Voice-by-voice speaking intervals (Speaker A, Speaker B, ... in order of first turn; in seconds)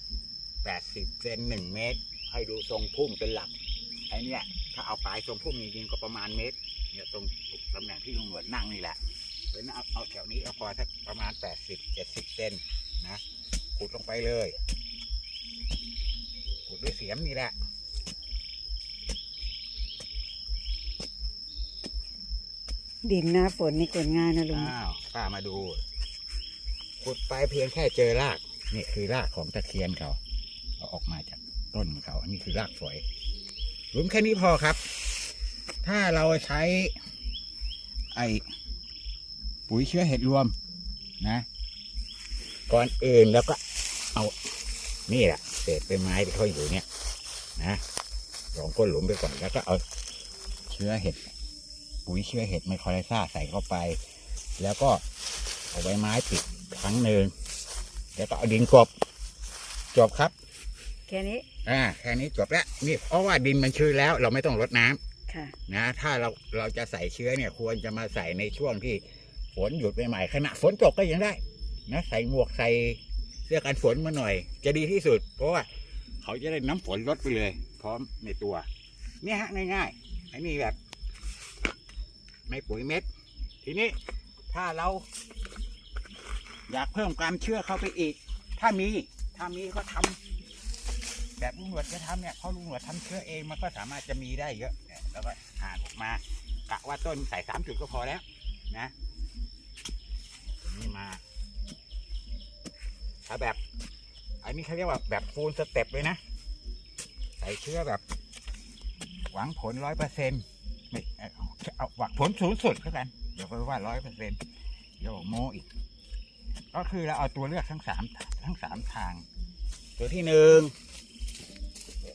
Speaker A: 0.6-3.5, 4.1-9.0, 9.5-13.2, 13.8-14.6, 16.7-17.5, 24.5-25.8, 27.0-30.2, 30.8-33.0, 33.9-34.8, 35.8-37.0, 38.1-38.5, 39.7-40.5, 41.2-41.5, 42.7-43.6, 44.1-44.5, 45.1-46.9, 47.6-47.8, 48.5-49.8, 50.7-51.2, 52.0-54.0, 54.6-55.0, 55.7-57.3, 58.1-58.9, 59.9-60.3, 61.6-65.0, 65.7-75.7, 76.2-78.7, 79.2-80.8, 82.5-83.1, 83.6-84.0, 84.5-85.1, 86.7-90.2, 91.4-98.9, 100.6-101.2, 103.2-103.6, 104.4-106.2, 107.4-108.0, 109.3-114.4, 115.0-115.7, 116.7-119.2, 120.0-120.7
Speaker B: 23.0-24.7, 61.1-61.4, 65.3-65.5